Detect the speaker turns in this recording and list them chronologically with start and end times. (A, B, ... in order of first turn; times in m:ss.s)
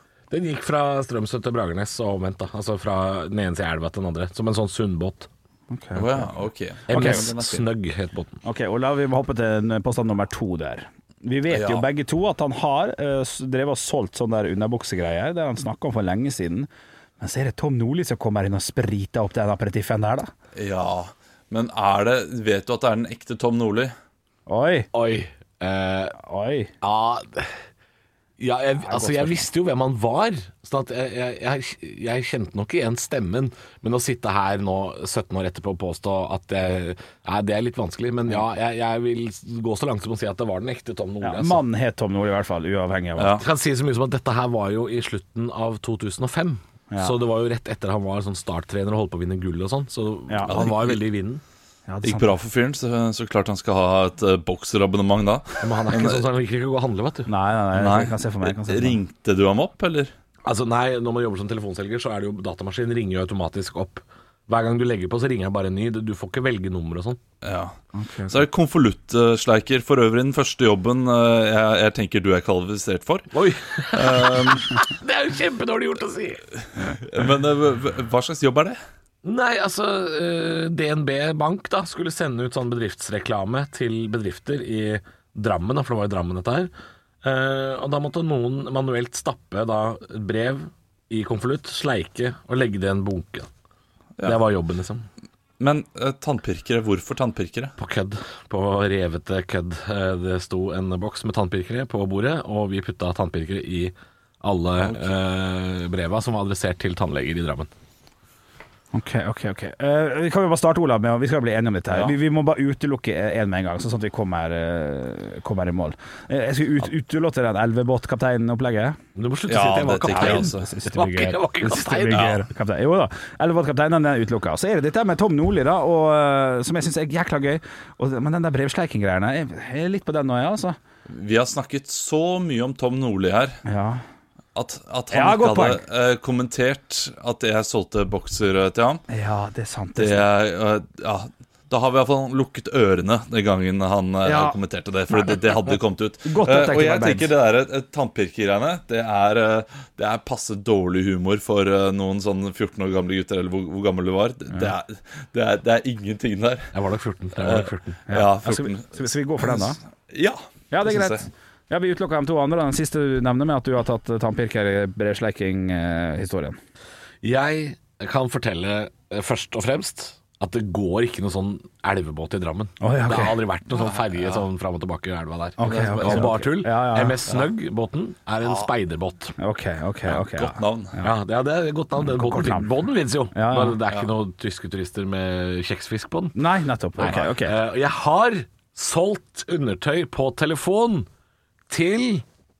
0:00.3-0:05.3 A
0:05.7-0:06.3 B
0:05.9-0:07.6 C
0:06.9-0:07.2 B
0:06.9-0:08.4 A
0:08.4-0:16.7 B
0:11.5-0:11.9 C
0:17.2-0:20.3 B
0:20.6-0:23.9 C
0:24.5-0:24.9 B
0:24.9-0:26.2 A
0:26.2-0:26.7 B
0:26.8-0:27.6 A
0:28.4-0:41.6 A
0:28.8-0:29.4 B
0:41.2-0:43.4 B
0:43.2-0:43.4 C
0:43.3-0:51.4 A
0:50.3-0:50.5 B
0:50.5-0:51.0 C
0:51.9-0:52.3 B
0:52.0-0:56.2 C
0:55.6-0:57.3 A
0:57.3-0:59.0 B
0:57.7-1:00.1 C
1:00.4-1:07.2 A
1:07.4-1:07.7 C
1:07.9-1:08.4 B
1:08.3-1:13.3 C
1:13.3-1:16.5 A
1:13.9-1:14.7 C
1:16.9-1:18.8 C
1:19.2-1:26.7 A
1:27.2-1:33.5 A
1:34.2-1:35.1 A
1:35.6-1:37.7 C
1:37.8-1:47.7 A
1:48.9-1:59.0 B
1:51.9-1:52.2 C
1:59.2-2:02.3 A
1:59.5-2:00.7 C
2:00.1-2:10.8 B
2:02.1-2:02.4 C
2:11.1-2:13.6 C
2:13.6-2:14.0 B
2:14.6-2:19.0 C
2:15.1-2:15.8 B
2:19.1-2:20.2 B
2:20.0-2:36.7 C
2:24.2-2:24.6 B
2:25.1-2:27.3 B
2:36.7-2:38.0 A
2:37.4-2:41.2 C
2:38.1-2:39.8 B
2:40.7-2:46.6 B
2:47.2-2:59.4 A
2:52.8-2:53.4 B
2:53.8-2:54.4 C
2:55.6-2:57.2 B
2:55.6-2:56.4 C
2:59.4-3:01.1 B
3:00.1-3:01.0 C
3:01.0-3:06.4 A
3:02.0-3:02.7 B
3:03.3-3:03.8 B
3:06.4-3:07.6 B
3:07.0-3:11.1 A
3:11.7-3:12.2 A